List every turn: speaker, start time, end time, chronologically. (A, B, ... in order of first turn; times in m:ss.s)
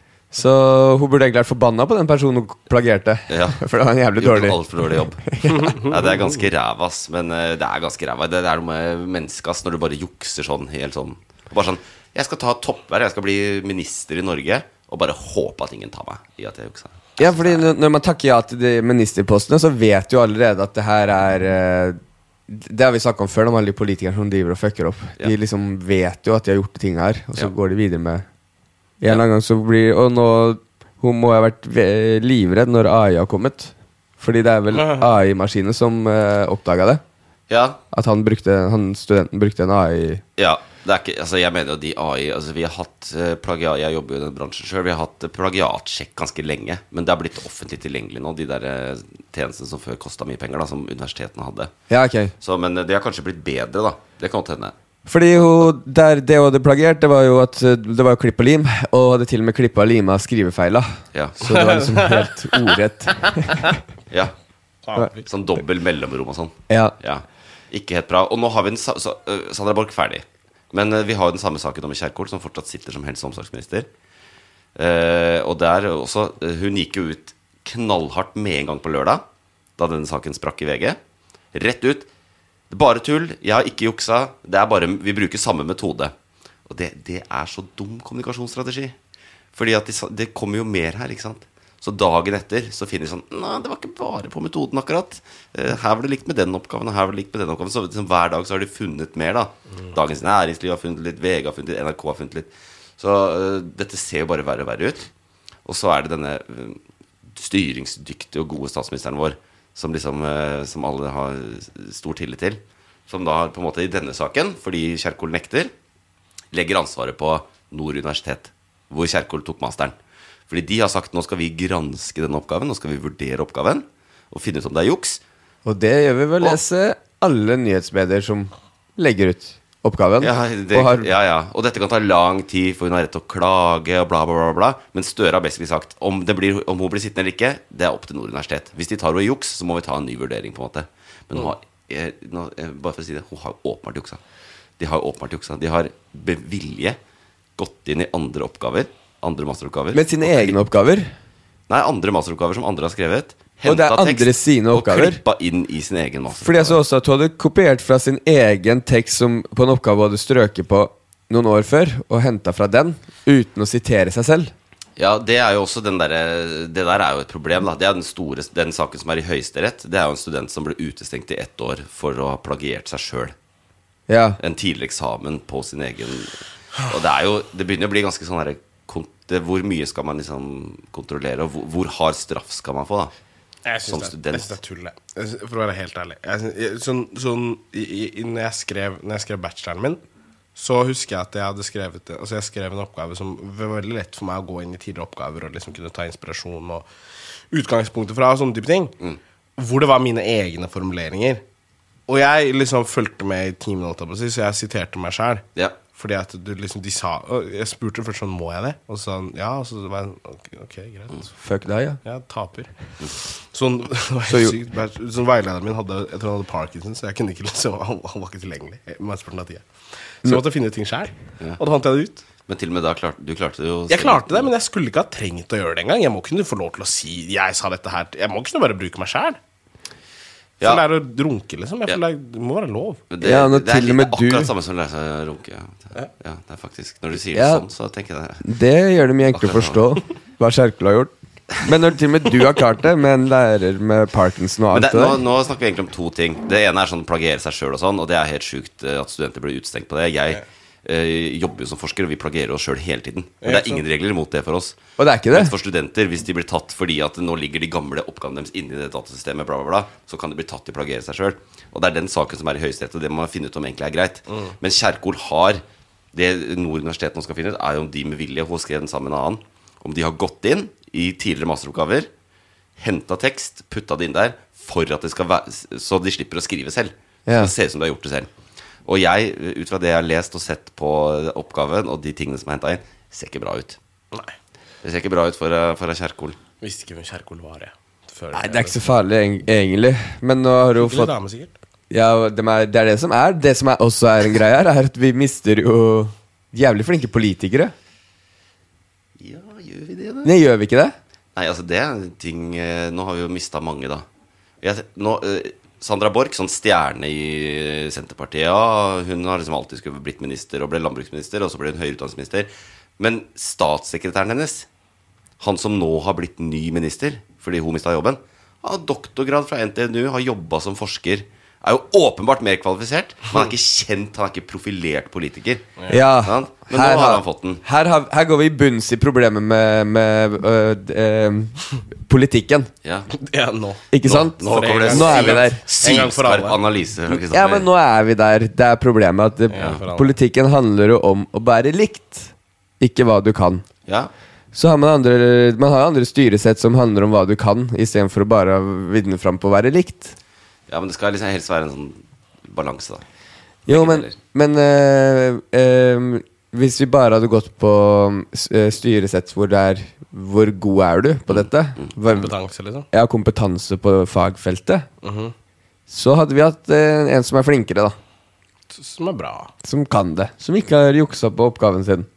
0:00.3-0:05.7 A
0:03.3-0:03.6 B
0:04.2-0:17.7 B
0:05.5-0:06.2 C
0:17.2-0:28.2 A
0:29.0-0:37.0 A
0:34.7-0:35.1 C
0:37.5-0:37.8 B
0:37.9-0:40.2 A
0:40.4-0:51.7 B
0:51.9-0:52.3 A
0:52.4-0:54.7 B
0:55.0-1:03.7 A
1:01.1-1:01.4 B
1:01.5-1:02.3 C
1:04.8-1:05.3 C
1:05.2-1:13.9 B
1:06.7-1:06.9 A
1:14.8-1:19.2 B
1:19.8-1:21.0 B
1:21.5-1:22.1 B
1:22.7-1:26.1 B
1:26.7-1:29.0 B
1:29.5-1:45.1 B
1:45.6-1:46.8 B
1:47.3-1:55.7 B
1:56.5-2:00.0 B
2:00.5-2:05.2 B
2:05.6-2:11.0 A
2:10.2-2:24.2 B
2:24.8-2:27.0 B
2:27.6-2:30.6 B
2:29.9-2:31.1 A
2:31.7-2:36.8 B
2:33.6-2:35.2 A
2:36.4-2:44.5 A
2:45.0-2:53.3 B
2:54.1-2:54.4 A
2:54.4-3:03.1 B
3:03.6-3:10.0 C
3:03.9-3:04.5 B
3:10.6-3:16.8 C
3:17.5-3:18.9 C
3:19.6-3:21.4 C
3:22.1-3:31.3 C
3:31.4-3:32.0 A
3:32.0-3:32.7 C
3:33.5-3:39.6 C
3:34.3-3:34.5 A
3:40.2-3:42.2 C
3:42.4-3:44.5 B
3:43.9-3:49.4 C
3:50.6-3:53.0 C
3:53.1-3:58.4 B
3:53.2-3:54.5 A
3:57.3-3:57.6 A
3:58.4-4:05.2 A
3:59.3-3:59.8 B
4:04.7-4:14.8 B
4:13.4-4:13.8 C
4:15.0-4:15.5 A
4:15.3-4:32.1 B
4:32.8-4:38.3 B
4:37.3-4:37.5 A
4:38.8-4:43.8 B
4:44.8-4:46.4 B
4:46.6-4:48.8 C
4:48.3-4:51.1 A
4:50.8-4:51.5 C
4:51.9-4:57.7 A
4:59.2-5:00.3 B
5:00.2-5:00.9 A
5:01.3-5:04.0 B
5:04.6-5:14.7 B
5:15.4-5:27.6 B
5:25.9-5:32.7 A
5:32.8-5:33.1 B
5:33.1-5:33.8 C
5:33.9-5:35.6 A
5:34.0-5:37.7 B
5:34.4-5:36.6 C
5:37.1-5:43.6 A
5:39.5-5:40.1 C
5:39.6-5:39.8 B
5:43.8-5:44.1 B
5:44.5-5:50.2 A
5:50.7-5:53.0 B
5:53.6-6:02.3 A
5:53.7-5:54.2 B
6:01.3-6:01.9 B
6:02.1-6:02.9 C
6:02.9-6:04.9 A
6:05.0-6:05.3 C
6:05.9-6:08.0 A
6:08.7-6:09.5 C
6:09.6-6:12.1 A